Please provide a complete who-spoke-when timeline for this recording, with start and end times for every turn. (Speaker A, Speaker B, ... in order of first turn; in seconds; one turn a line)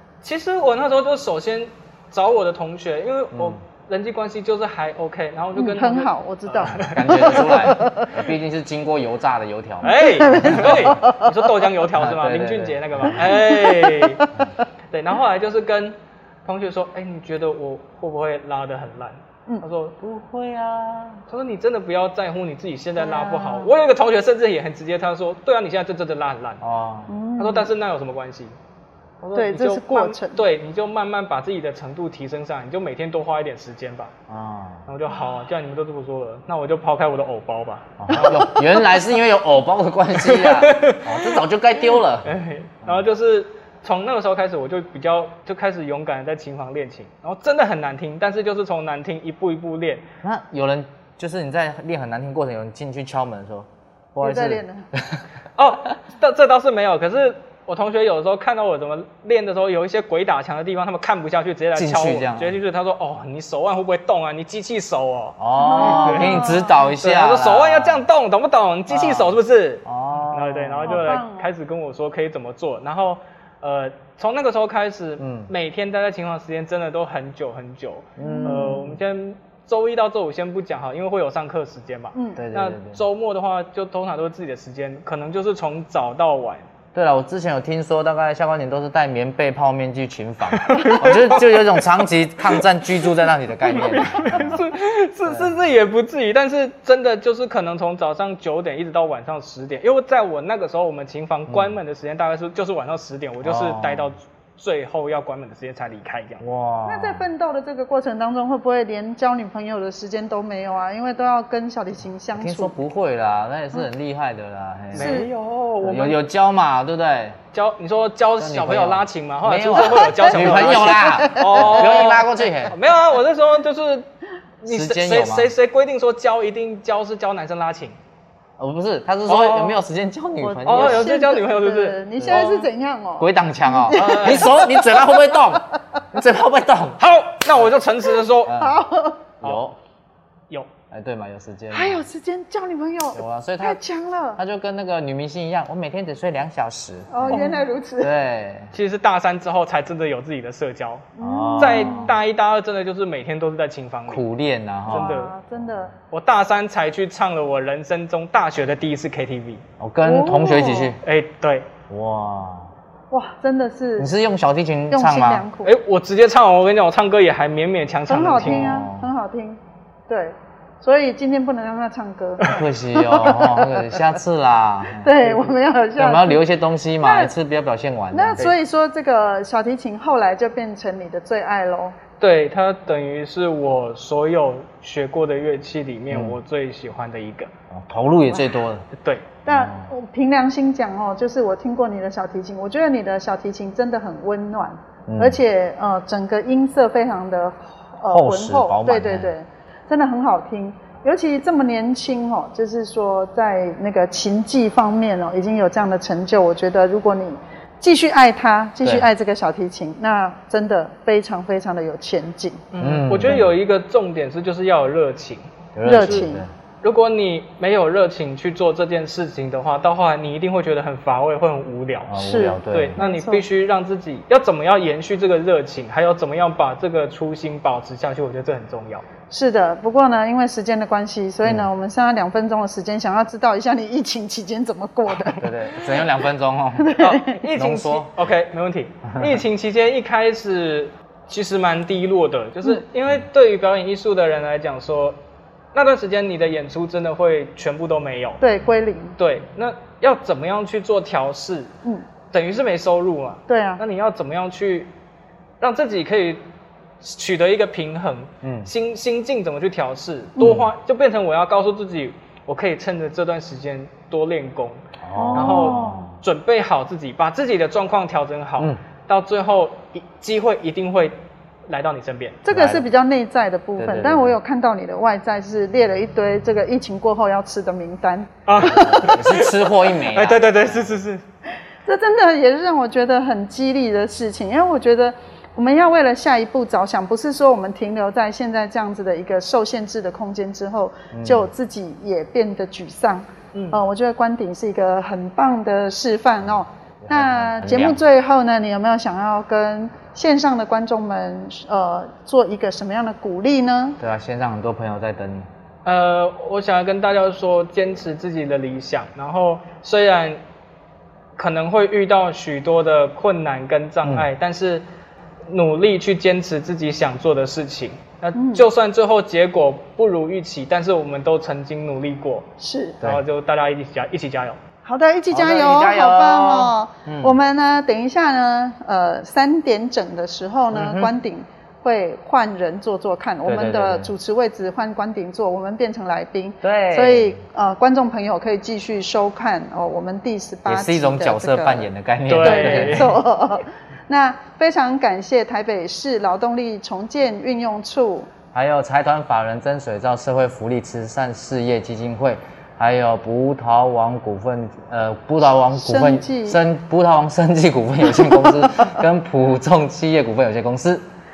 Speaker A: 0.2-7.6
Speaker B: 3.3-3.6
Speaker C: 5.6-8.1
Speaker B: 6.7-11.0
Speaker A: 9.8-14.3
Speaker C: 9.9-11.5
Speaker B: 12.0-13.2
Speaker C: 13.3-14.3
Speaker A: 14.9-20.0
Speaker B: 20.0-21.2
Speaker A: 21.3-26.6
Speaker C: 23.0-23.7
Speaker B: 26.6-27.1
Speaker C: 27.1-27.7
Speaker A: 27.4-28.6
Speaker A: 29.2-34.1
Speaker C: 29.4-30.4
Speaker B: 34.3-34.9
Speaker A: 34.9-38.5
Speaker B: 38.0-42.3
Speaker C: 38.1-38.9
Speaker A: 40.2-41.5
Speaker A: 42.2-50.0
Speaker B: 50.2-55.2
Speaker C: 54.2-54.9
Speaker A: 55.6-86.7
Speaker B: 61.7-62.6
Speaker B: 65.4-68.0
Speaker C: 65.6-66.9
Speaker B: 68.9-71.1
Speaker C: 70.9-71.5
Speaker B: 75.2-75.5
Speaker B: 78.2-78.8
Speaker C: 78.2-78.9
Speaker C: 82.1-82.4
Speaker B: 82.4-83.0
Speaker B: 87.0-94.7
Speaker A: 90.5-91.7
Speaker A: 93.7-106.4
Speaker C: 93.8-94.2
Speaker B: 95.3-95.5
Speaker B: 101.5-101.8
Speaker B: 103.4-104.2
Speaker B: 106.4-107.2
Speaker C: 106.9-112.8
Speaker B: 112.3-115.2
Speaker A: 114.9-116.2
Speaker C: 114.9-115.3
Speaker B: 115.8-117.4
Speaker A: 117.5-124.1
Speaker B: 118.4-122.8
Speaker C: 119.7-122.1
Speaker A: 124.6-128.0
Speaker B: 124.7-125.5
Speaker B: 128.6-131.1
Speaker A: 129.3-129.8
Speaker C: 130.4-135.4
Speaker A: 130.7-132.7
Speaker B: 132.2-132.5
Speaker B: 133.2-137.0
Speaker A: 133.9-134.6
Speaker A: 137.0-138.6
Speaker B: 138.4-138.8
Speaker C: 138.5-139.3
Speaker B: 139.4-139.8
Speaker B: 140.9-142.1
Speaker C: 141.7-144.4
Speaker B: 143.2-143.8
Speaker B: 144.4-147.5
Speaker C: 147.1-148.1
Speaker A: 147.3-147.6
Speaker B: 148.0-148.7
Speaker A: 148.7-154.2
Speaker C: 151.2-152.1
Speaker B: 151.2-152.2
Speaker B: 154.1-155.9
Speaker A: 154.9-155.3
Speaker C: 154.9-155.9
Speaker A: 156.1-159.6
Speaker B: 159.8-161.0
Speaker C: 160.0-160.9
Speaker A: 161.0-161.7
Speaker B: 161.9-162.7
Speaker C: 163.1-164.1
Speaker B: 164.0-165.4
Speaker C: 164.9-165.8
Speaker A: 165.6-168.7
Speaker C: 168.1-174.0
Speaker B: 168.4-169.1
Speaker B: 172.4-175.2
Speaker C: 175.0-176.4
Speaker A: 175.2-175.5
Speaker B: 176.0-178.5
Speaker C: 177.0-177.3
Speaker C: 178.1-182.0
Speaker A: 182.2-187.5
Speaker B: 186.1-186.4
Speaker B: 187.7-188.9
Speaker A: 189.0-189.3
Speaker B: 189.5-189.9
Speaker C: 189.5-212.7
Speaker B: 195.1-195.4
Speaker B: 198.1-199.3
Speaker A: 212.7-216.2
Speaker B: 212.8-213.5
Speaker B: 215.8-216.5
Speaker C: 215.8-216.4
Speaker A: 216.8-229.1
Speaker B: 222.1-223.0
Speaker C: 222.2-223.4
Speaker C: 229.3-235.5
Speaker A: 235.2-235.5
Speaker B: 235.4-237.0
Speaker C: 236.8-237.4
Speaker A: 237.0-245.2
Speaker B: 237.6-238.1
Speaker B: 239.1-239.4
Speaker A: 245.8-248.4
Speaker C: 248.4-249.2
Speaker A: 249.2-251.7
Speaker A: 252.3-254.9
Speaker C: 253.5-253.8
Speaker A: 255.6-256.4
Speaker A: 257.0-264.8
Speaker B: 258.4-258.7
Speaker B: 260.4-260.7
Speaker B: 265.0-266.2
Speaker C: 265.1-266.0
Speaker A: 265.4-271.1
Speaker A: 271.7-272.4
Speaker C: 272.4-279.2
Speaker B: 272.5-272.8
Speaker B: 273.8-274.4
Speaker A: 278.5-281.2
Speaker B: 278.6-281.0
Speaker C: 281.9-304.0
Speaker B: 291.1-291.5
Speaker A: 293.5-293.8
Speaker B: 297.1-298.0
Speaker B: 304.0-305.5
Speaker A: 305.9-310.4
Speaker A: 311.4-314.9
Speaker A: 315.5-322.5
Speaker C: 318.4-318.7
Speaker C: 322.6-323.0
Speaker A: 323.0-324.6
Speaker C: 324.9-341.9
Speaker B: 325.3-327.4
Speaker B: 330.7-331.1
Speaker B: 333.4-334.1
Speaker B: 336.6-337.4
Speaker B: 340.7-343.2
Speaker A: 342.3-343.2
Speaker C: 342.4-348.3
Speaker B: 348.5-361.0
Speaker C: 355.7-356.6
Speaker C: 358.1-358.9